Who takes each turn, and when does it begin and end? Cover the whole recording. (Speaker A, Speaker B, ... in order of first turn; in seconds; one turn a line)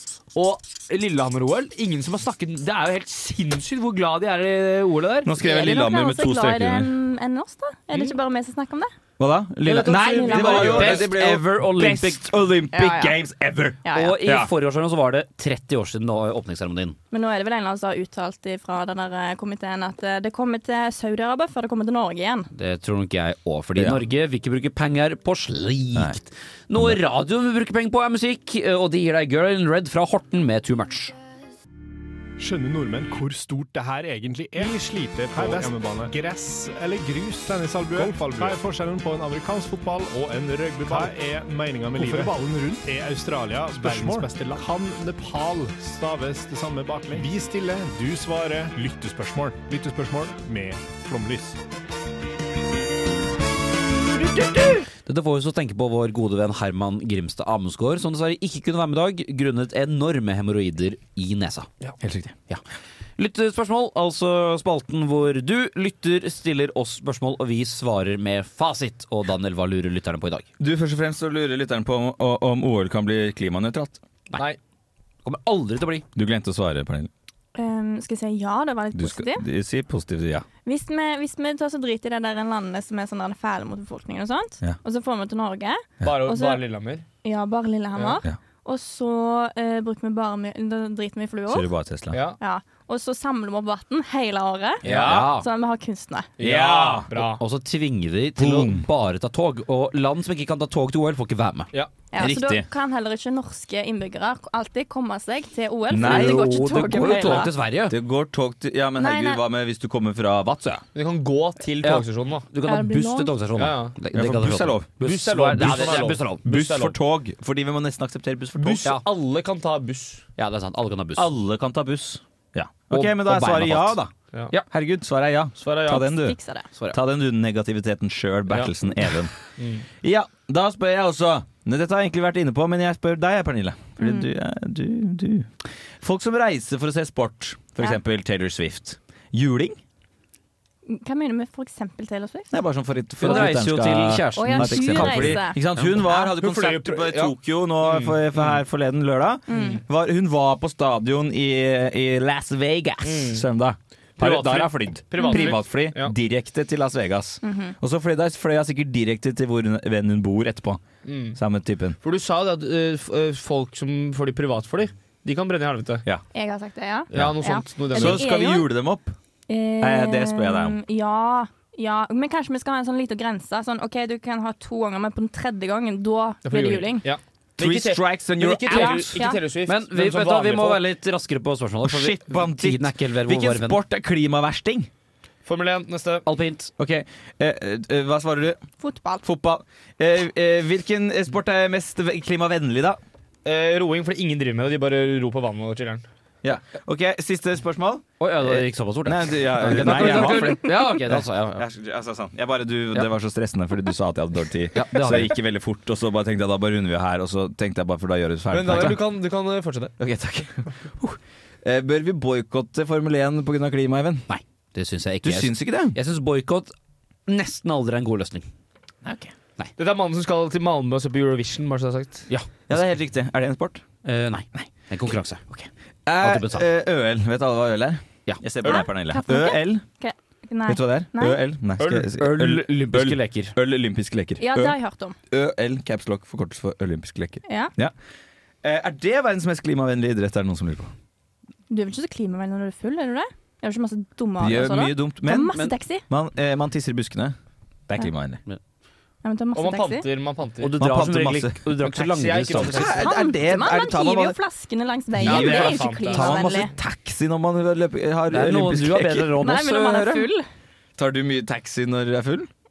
Speaker A: 0.3-5.3
Speaker B: 5.2-6.9
Speaker C: 5.4-8.9
Speaker B: 9.2-14.5
Speaker A: 9.7-11.8
Speaker C: 9.9-11.0
Speaker D: 10.3-12.2
Speaker C: 12.7-13.2
Speaker C: 13.8-14.2
Speaker D: 13.9-17.0
Speaker C: 17.1-22.5
Speaker D: 22.5-31.1
Speaker B: 23.8-24.0
Speaker E: 32.4-51.6
Speaker A: 42.0-42.4
Speaker A: 43.8-44.1
Speaker D: 54.2-61.7
Speaker B: 62.0-62.3
Speaker D: 63.2-70.5
Speaker B: 70.6-74.0
Speaker D: 75.2-76.1
Speaker B: 76.2-77.1
Speaker C: 77.5-79.4
Speaker B: 78.9-80.5
Speaker C: 80.7-86.6
Speaker A: 86.0-87.0
Speaker C: 87.2-91.7
Speaker A: 88.0-88.2
Speaker B: 91.5-92.2
Speaker A: 92.1-92.4
Speaker C: 92.4-96.3
Speaker B: 94.8-95.3
Speaker D: 94.8-95.5
Speaker A: 94.9-95.2
Speaker A: 96.4-97.4
Speaker B: 96.4-97.1
Speaker D: 97.1-101.7
Speaker B: 98.4-98.8
Speaker C: 102.1-107.5
Speaker B: 102.2-102.7
Speaker B: 105.9-110.8
Speaker D: 106.0-108.0
Speaker C: 109.0-109.4
Speaker A: 111.0-112.5
Speaker D: 111.8-116.5
Speaker C: 112.6-113.3
Speaker A: 113.6-114.0
Speaker B: 114.1-114.9
Speaker A: 115.0-117.0
Speaker B: 115.5-118.9
Speaker A: 118.6-120.2
Speaker D: 120.4-121.3
Speaker B: 121.2-124.1
Speaker D: 122.9-124.7
Speaker B: 124.7-126.4
Speaker A: 125.6-126.1
Speaker C: 126.1-126.7
Speaker B: 126.9-129.3
Speaker A: 129.6-129.8
Speaker B: 130.0-135.5
Speaker C: 134.0-134.3
Speaker B: 136.0-139.8
Speaker C: 140.9-142.5
Speaker B: 142.5-160.8
Speaker D: 143.2-145.5
Speaker C: 144.3-146.3
Speaker A: 145.8-148.6
Speaker A: 149.5-149.8
Speaker C: 149.5-149.8
Speaker A: 153.0-153.4
Speaker A: 154.2-156.1
Speaker C: 155.2-155.5
Speaker C: 157.4-157.8
Speaker A: 161.1-161.4
Speaker B: 161.3-162.0
Speaker A: 162.0-166.1
Speaker C: 166.3-168.7
Speaker B: 167.1-167.4
Speaker A: 167.1-168.2
Speaker B: 167.9-169.1
Speaker C: 169.5-177.1
Speaker B: 169.8-170.8
Speaker A: 176.4-180.8
Speaker B: 177.6-179.2
Speaker C: 178.7-179.4
Speaker D: 179.7-183.8
Speaker B: 181.8-184.9
Speaker A: 185.5-186.2
Speaker D: 186.2-186.7
Speaker B: 186.8-188.6
Speaker C: 188.8-189.2
Speaker B: 189.2-193.0
Speaker A: 193.4-196.1
Speaker B: 196.4-209.0
Speaker D: 198.2-201.7
Speaker A: 199.7-201.0
Speaker D: 204.7-205.4
Speaker A: 208.5-209.9
Speaker B: 210.0-214.2
Speaker D: 214.3-216.7
Speaker B: 215.2-216.0
Speaker D: 217.3-218.5
Speaker B: 219.0-219.3
Speaker A: 219.8-222.3
Speaker B: 222.7-223.8
Speaker D: 224.1-225.5
Speaker B: 225.5-229.8
Speaker D: 226.2-226.7
Speaker C: 228.7-231.4
Speaker B: 230.7-234.8
Speaker D: 231.8-233.5
Speaker C: 234.4-235.2
Speaker B: 235.3-237.9
Speaker C: 237.5-237.7
Speaker B: 238.6-240.9
Speaker C: 241.7-246.0
Speaker B: 244.4-247.4
Speaker B: 247.9-248.4
Speaker C: 249.2-250.1
Speaker A: 249.5-250.7
Speaker D: 250.6-253.0
Speaker B: 250.8-251.7
Speaker A: 251.8-253.1
Speaker B: 252.6-254.4
Speaker C: 253.0-256.7
Speaker B: 255.2-259.4
Speaker A: 255.2-256.4
Speaker D: 258.3-260.3
Speaker C: 259.4-260.4
Speaker B: 261.0-262.5